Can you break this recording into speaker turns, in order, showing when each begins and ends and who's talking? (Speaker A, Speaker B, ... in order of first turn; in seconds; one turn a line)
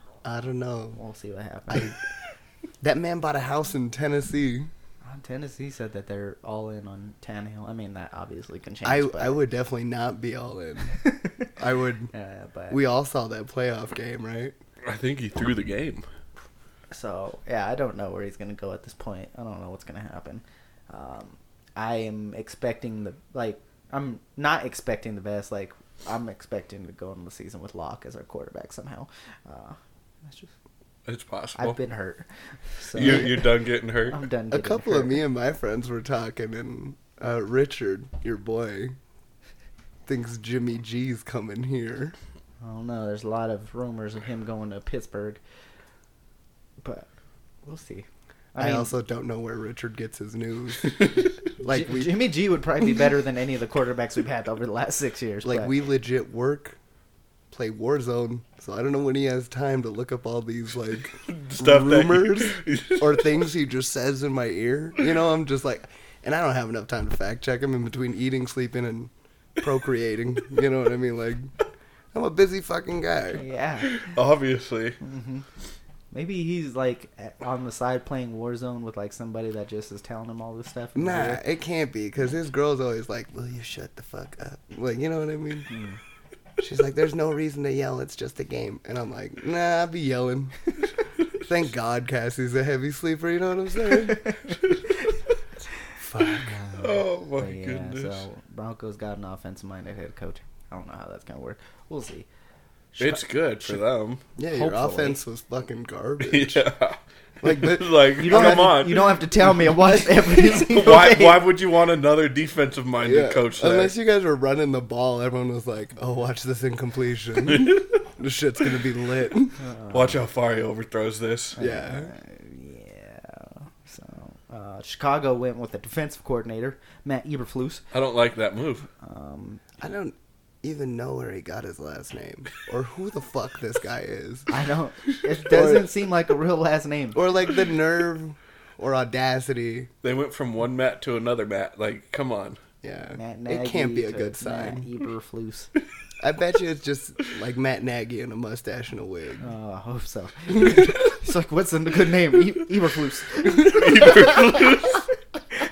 Speaker A: 0.2-1.0
Speaker B: 1.0-1.9
Speaker A: 2.8-4.7
Speaker B: 5.0-9.4
Speaker A: 8.8-11.0
Speaker B: 11.1-11.5
Speaker A: 11.6-12.1
Speaker B: 12.1-12.8
Speaker A: 12.7-14.6
Speaker C: 14.8-16.1
Speaker B: 16.9-30.5
Speaker C: 31.1-31.8
Speaker B: 31.6-35.2
Speaker C: 33.0-34.2
Speaker A: 33.0-33.3
Speaker A: 34.5-39.0
Speaker A: 40.1-42.1
Speaker B: 42.6-45.4
Speaker B: 46.8-47.1
Speaker B: 47.6-48.9
Speaker A: 48.6-52.1
Speaker B: 51.6-55.7
Speaker A: 55.4-56.8
Speaker A: 57.5-71.5
Speaker C: 61.3-63.3
Speaker A: 72.1-73.4
Speaker B: 73.3-74.2
Speaker C: 73.8-75.0
Speaker B: 75.0-75.5
Speaker B: 76.1-81.4
Speaker A: 81.0-85.7
Speaker B: 85.7-86.0
Speaker A: 86.6-90.7
Speaker A: 91.4-94.3
Speaker A: 96.0-96.6
Speaker B: 96.4-102.3
Speaker C: 96.8-98.2
Speaker B: 102.9-103.8
Speaker C: 103.0-104.2
Speaker A: 104.4-106.6
Speaker B: 104.5-105.2
Speaker C: 106.2-109.2
Speaker A: 107.4-108.9
Speaker B: 108.2-111.5
Speaker C: 110.4-114.0
Speaker A: 113.0-119.6
Speaker C: 117.5-118.0
Speaker B: 119.6-120.2
Speaker C: 119.9-121.6
Speaker A: 121.6-122.1
Speaker B: 121.6-127.8
Speaker C: 127.9-128.9
Speaker B: 129.0-129.6
Speaker A: 129.8-134.5
Speaker B: 134.5-137.2
Speaker A: 135.4-135.9
Speaker A: 137.2-139.9
Speaker C: 140.0-142.6
Speaker A: 142.8-144.9
Speaker B: 143.2-145.7
Speaker A: 146.2-149.4
Speaker B: 149.4-154.9
Speaker C: 153.5-155.0